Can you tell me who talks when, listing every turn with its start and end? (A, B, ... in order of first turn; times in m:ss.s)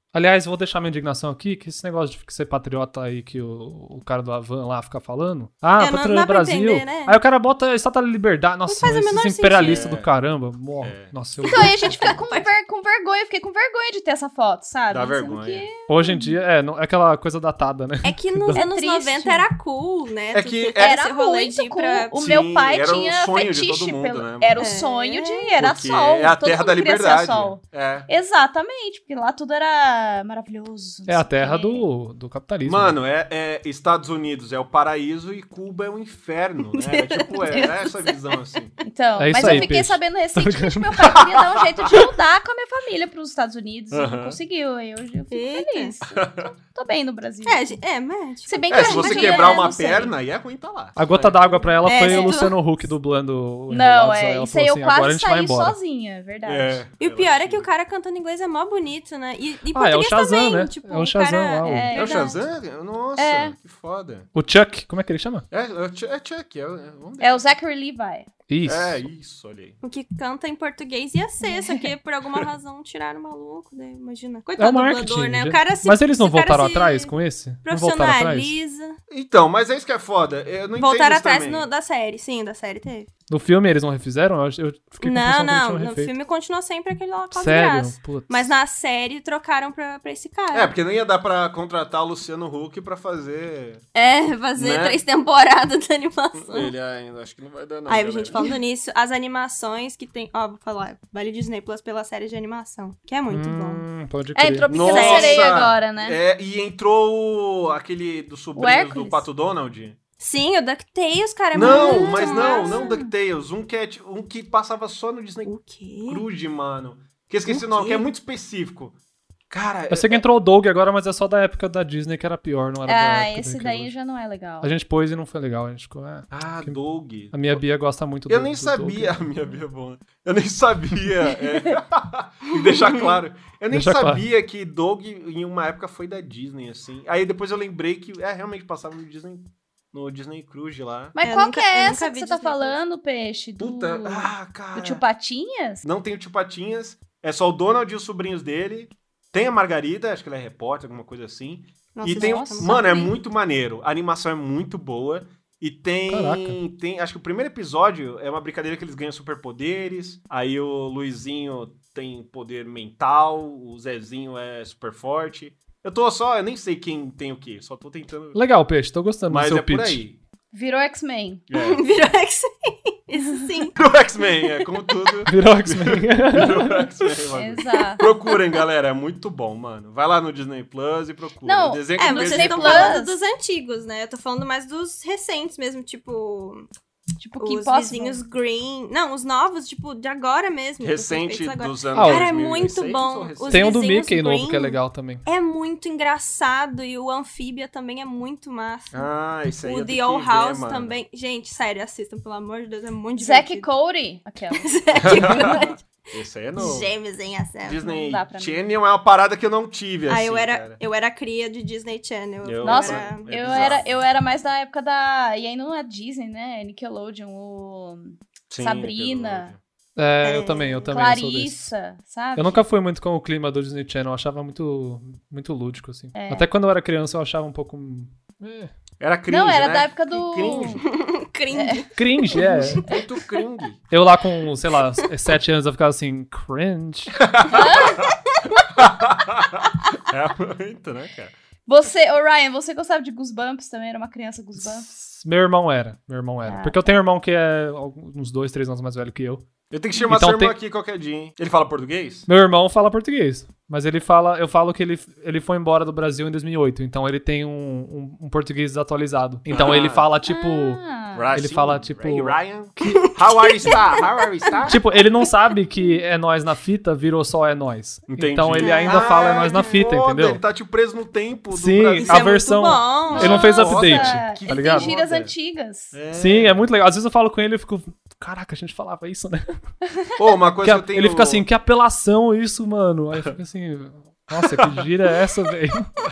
0:00.1-0:12.2 A
0:05.8-0:07.2 B
0:08.7-0:09.9 B
0:09.6-0:10.1 C
0:10.8-0:11.1 C
0:11.4-0:12.5 B
0:11.4-0:16.3 D
0:14.9-0:15.7 C
0:15.9-0:18.6 A
0:18.0-0:22.1 B
0:18.5-0:19.5 D
0:20.3-0:21.0 C
0:20.8-0:31.8 D
0:22.1-0:24.7 C
0:24.6-0:25.5 B
0:25.6-0:28.1 C
0:31.1-0:33.0 A
0:32.6-0:38.8 C
0:36.8-0:38.3 B
0:37.5-0:37.7 D
0:38.8-0:47.8 D
0:39.2-0:41.2 A
0:39.4-0:39.7 C
0:43.9-0:44.4 C
0:45.3-0:46.0 B
0:46.0-0:46.5 C
0:47.5-0:49.7 B
0:48.5-0:50.1 D
0:48.7-0:52.2 C
0:51.0-0:55.8 A
0:51.8-0:52.6 B
0:53.7-0:56.8 D
0:56.4-0:57.7 C
0:57.0-1:02.3 B
0:59.7-1:01.9 A
1:01.6-1:02.5 D
1:01.9-1:04.3 C
1:03.2-1:03.6 D
1:04.4-1:05.5 A
1:05.5-1:07.5 C
1:07.2-1:08.3 D
1:08.5-1:09.0 A
1:08.7-1:09.8 C
1:09.8-1:19.0 B
1:11.4-1:11.9 D
1:14.6-1:18.6 A
1:19.1-1:21.7 C
1:20.8-1:23.1 B
1:23.3-1:26.1 A
1:25.0-1:30.7 B
1:27.3-1:28.6 A
1:30.5-1:33.8 C
1:34.0-1:36.7 B
1:34.6-1:35.0 C
1:36.4-1:38.6 C
1:37.9-1:43.8 B
1:43.3-1:44.7 A
1:44.4-1:46.2 D
1:44.7-1:50.0 C
1:44.7-1:45.5 B
1:48.6-1:49.2 D
1:50.2-1:52.8 B
1:51.5-1:55.5 C
1:51.6-1:53.1 D
1:55.4-1:56.2 B
1:56.1-1:59.0 C
1:57.5-1:58.1 B
1:59.5-2:00.2 C
1:59.9-2:03.9 A
2:02.9-2:04.7 D
2:04.6-2:06.8 A
2:06.3-2:07.6 C
2:07.3-2:09.2 A
2:08.3-2:21.2 C
2:13.7-2:14.2 A
2:21.2-2:25.8 D
2:21.2-2:22.8 B
2:23.6-2:25.0 C
2:25.8-2:48.4 C
2:32.0-2:33.1 B
2:32.2-2:33.0 D
2:36.1-2:36.6 A
2:48.4-2:50.0 A
2:49.3-2:50.2 C
2:50.5-2:51.4 D
2:51.5-2:51.9 C
2:51.5-2:53.8 B
2:53.2-2:53.6 D
2:53.8-3:03.0 C
2:54.4-2:54.7 B
2:55.3-2:56.9 A
2:57.4-2:58.0 D
3:01.4-3:03.2 D
3:02.0-3:06.7 B
3:07.2-3:08.2 D
3:07.4-3:23.7 B
3:10.8-3:14.0 C
3:11.9-3:12.4 A
3:13.5-3:15.2 A
3:18.9-3:21.0 C
3:23.2-3:25.6 D
3:24.5-3:25.8 B
3:25.0-3:26.9 C
3:26.6-3:27.8 B
3:27.6-3:30.8 C
3:27.8-3:28.6 D
3:30.1-3:33.8 B
3:32.4-3:34.0 C
3:32.6-3:39.5 D
3:38.5-3:39.6 C
3:40.0-3:41.7 A
3:40.2-3:40.9 B
3:40.9-3:42.6 D
3:42.4-3:48.7 A
3:46.2-3:46.5 D
3:49.0-3:50.9 C
3:49.3-3:50.9 D
3:50.8-3:53.0 B
3:51.5-3:52.9 D
3:52.0-3:52.8 A
3:52.8-3:53.8 C
3:53.9-3:57.2 A
3:57.3-3:58.1 C
3:57.5-3:58.0 D
3:58.7-4:01.3 C
4:01.7-4:04.9 D
4:04.6-4:10.6 A
4:06.5-4:07.0 D
4:09.7-4:12.3 C
4:12.3-4:20.8 A
4:19.5-4:20.1 C
4:20.2-4:21.3 D
4:21.2-4:24.8 C
4:21.3-4:22.4 A
4:22.9-4:24.8 B
4:24.7-4:30.4 A
4:28.1-4:32.4 C
4:28.6-4:29.7 B
4:31.5-4:34.9 A
4:32.0-4:33.5 B
4:33.1-4:35.9 D
4:33.2-4:35.3 C
4:35.9-4:36.7 C
4:36.1-4:39.5 A
4:40.2-4:41.4 C
4:40.6-4:45.9 A
4:44.4-4:44.8 C